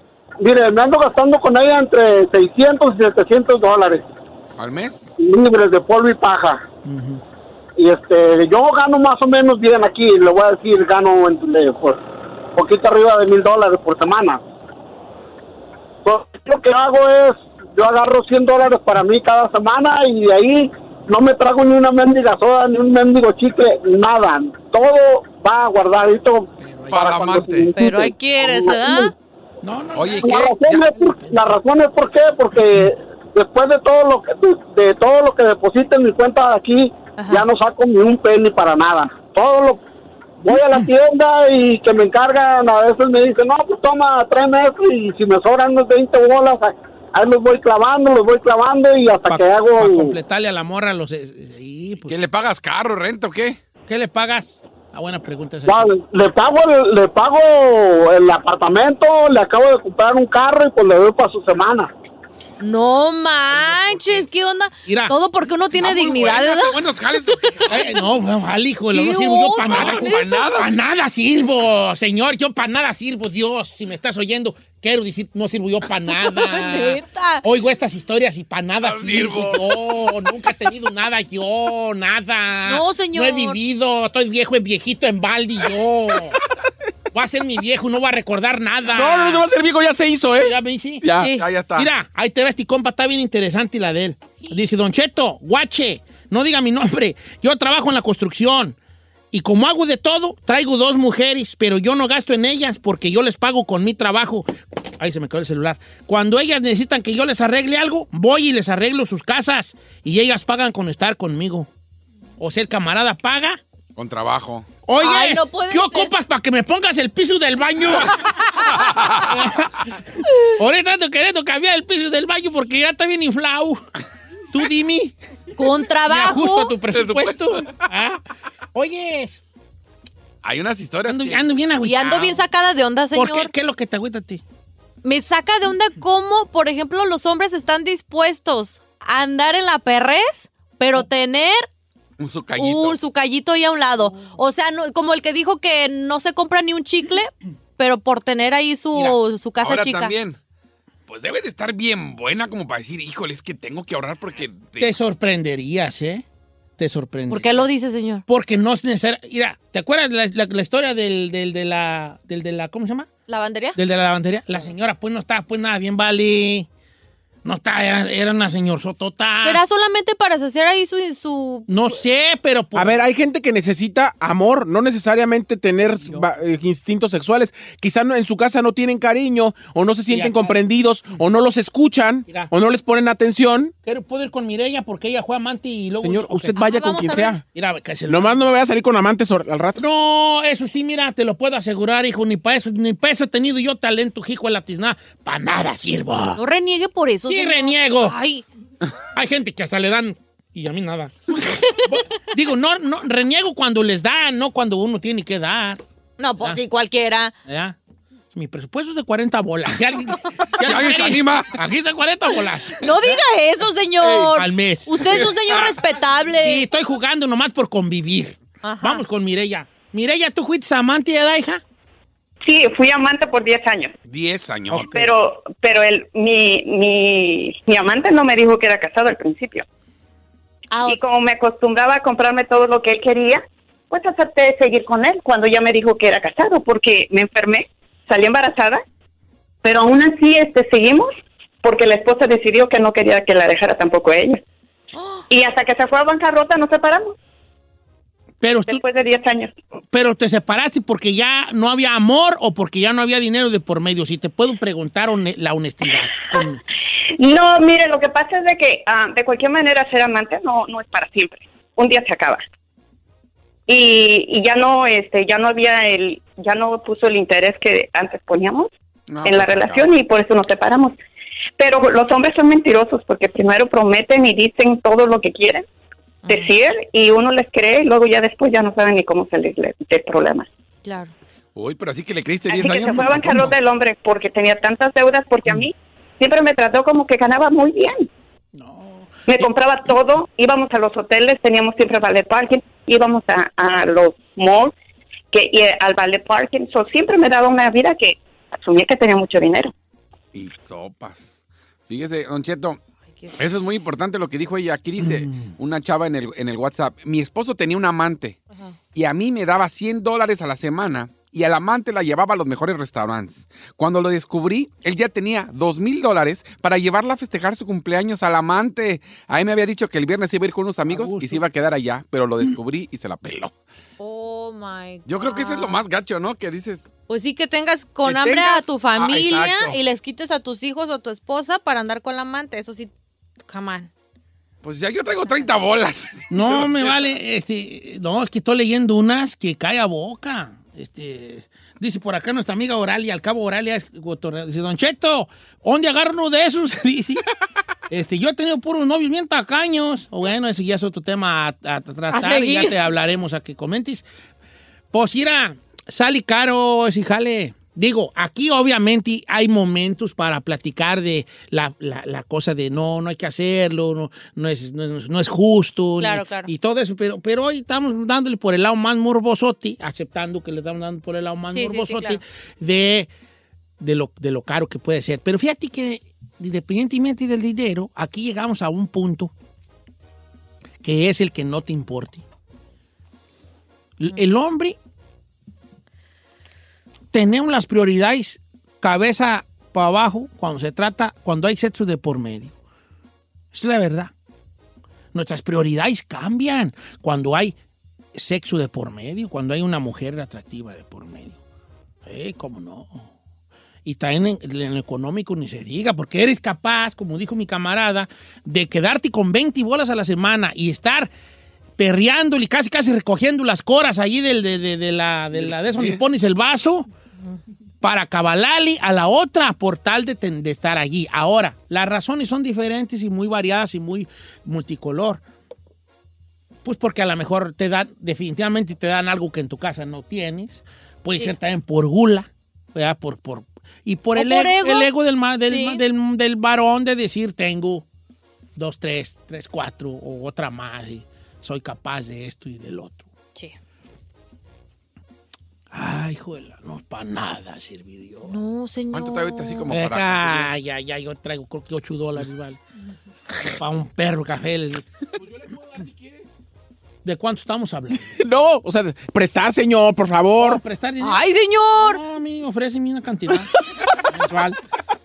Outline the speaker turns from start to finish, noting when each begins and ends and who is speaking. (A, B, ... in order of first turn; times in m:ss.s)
0:00.4-0:04.0 A
0:04.6-0:05.1 B
0:05.2-0:06.6 A
0:06.8-0:07.2 C
0:07.8-0:12.0 A
0:12.6-0:14.4 A
0:16.0-0:29.1 A
0:26.6-0:27.0 C
0:26.9-0:27.7 B
0:27.7-0:29.1 D
0:29.6-0:31.4 C
0:29.9-0:30.9 B
0:30.3-0:39.8 A
0:37.2-0:37.5 D
0:40.4-0:50.1 A
0:49.3-0:52.2 C
0:52.0-0:53.6 B
0:53.9-0:55.9 C
0:55.7-1:01.9 A
1:02.6-1:06.8 D
1:03.6-1:04.2 C
1:04.8-1:05.1 C
1:05.7-1:07.7 B
1:07.5-1:07.7 D
1:07.7-1:26.4 C
1:08.9-1:10.4 D
1:09.7-1:10.7 B
1:16.3-1:17.4 D
1:18.8-1:20.1 B
1:22.6-1:23.6 D
1:27.1-1:29.5 C
1:28.9-1:31.3 E
1:30.4-1:31.1 C
1:31.2-1:31.4 D
1:31.3-1:31.9 B
1:31.7-1:38.8 C
1:39.3-1:51.7 C
1:52.4-1:53.6 C
1:54.0-1:54.7 B
1:54.8-1:58.3 C
1:55.0-1:56.1 D
1:58.8-1:59.2 B
1:59.2-1:59.9 C
2:00.5-2:03.8 C
2:04.5-2:05.1 C
2:05.6-2:06.7 D
2:06.1-2:08.2 C
2:06.9-2:07.8 B
2:08.7-2:09.4 C
2:10.4-2:11.5 B
2:11.1-2:12.5 C
2:11.8-2:13.5 D
2:13.1-2:14.4 C
2:15.0-2:21.7 D
2:22.2-2:23.0 B
2:22.5-2:30.1 D
2:29.6-2:30.4 B
2:31.1-2:35.0 B
2:34.8-2:36.2 C
2:36.8-2:37.7 C
2:37.3-2:38.2 D
2:38.3-2:43.1 C
2:43.3-2:43.8 D
2:43.7-2:46.7 C
2:47.4-2:49.6 C
2:49.4-2:51.7 D
2:51.7-2:53.0 C
2:52.7-3:03.7 E
3:00.1-3:00.6 C
3:03.8-3:06.7 C
3:06.0-3:07.4 E
3:06.6-3:07.4 D
3:07.5-3:08.5 C
3:08.1-3:09.8 E
3:09.8-3:16.4 C
3:16.4-3:18.4 D
3:17.3-3:18.2 C
3:19.1-3:21.3 C
3:21.8-3:25.8 C
3:26.2-3:27.3 D
3:27.4-3:27.8 C
3:28.3-3:32.9 C
3:30.6-3:31.6 B
3:32.8-3:36.7 D
3:34.0-3:34.3 B
3:34.3-3:35.3 C
3:35.1-3:35.8 B
3:36.4-3:41.6 C
3:38.6-3:39.0 D
3:42.4-3:43.9 F
3:44.0-3:45.0 B
3:44.7-3:45.1 C
3:44.9-3:49.6 F
3:50.7-3:51.1 D
3:50.9-3:58.8 F
3:59.6-4:01.1 F
4:01.6-4:04.4 F
4:04.9-4:05.2 D
4:05.3-4:07.1 F
4:08.4-4:08.8 C
4:08.7-4:09.5 F
4:09.9-4:16.6 C
4:17.2-4:22.4 F
4:23.7-4:28.7 F
4:29.1-4:29.9 B
4:29.2-4:30.9 F
4:31.6-4:35.6 F
4:36.2-4:36.5 D
4:36.3-4:40.5 F
4:40.8-4:41.1 D
4:41.5-4:43.6 B
4:42.5-4:48.1 F
4:48.5-4:49.2 C
4:49.3-4:54.7 F
4:55.3-4:59.7 F
5:00.3-5:01.3 B
5:01.9-5:02.8 B
5:03.4-5:08.4 B
5:05.0-5:05.5 C
5:08.9-5:23.5 B
5:20.9-5:21.4 C
5:24.0-5:25.8 D
5:25.0-5:26.9 B
5:27.1-5:32.9 D
5:28.0-5:29.8 B
5:33.4-5:33.9 D
5:34.6-5:37.1 B
5:36.3-5:47.2 C
5:47.9-5:54.0 C
5:52.1-5:52.8 D
5:54.9-6:13.1 C
6:06.0-6:06.5 D
6:11.5-6:12.2 D
6:13.8-6:19.3 C
6:20.8-6:22.2 C
6:24.0-6:24.8 C
6:27.1-6:32.5 C
6:33.5-6:34.1 C
6:35.1-6:37.6 C
6:38.1-6:41.4 C
6:42.0-6:43.1 C
6:43.8-6:51.1 C
6:51.8-6:56.8 C
6:55.4-6:56.0 B
6:57.8-7:05.2 C
7:06.6-7:17.8 C
7:14.1-7:14.9 D
7:15.4-7:15.8 D
7:18.6-7:23.1 C
7:25.7-7:28.4 C
7:28.2-7:29.7 D
7:28.9-7:30.5 B
7:29.7-7:32.6 C
7:33.4-7:34.8 C
7:35.2-7:36.2 E
7:37.0-7:38.1 C
7:37.9-7:40.6 E
7:40.4-7:43.5 C
7:41.0-7:42.0 D
7:44.0-7:44.6 C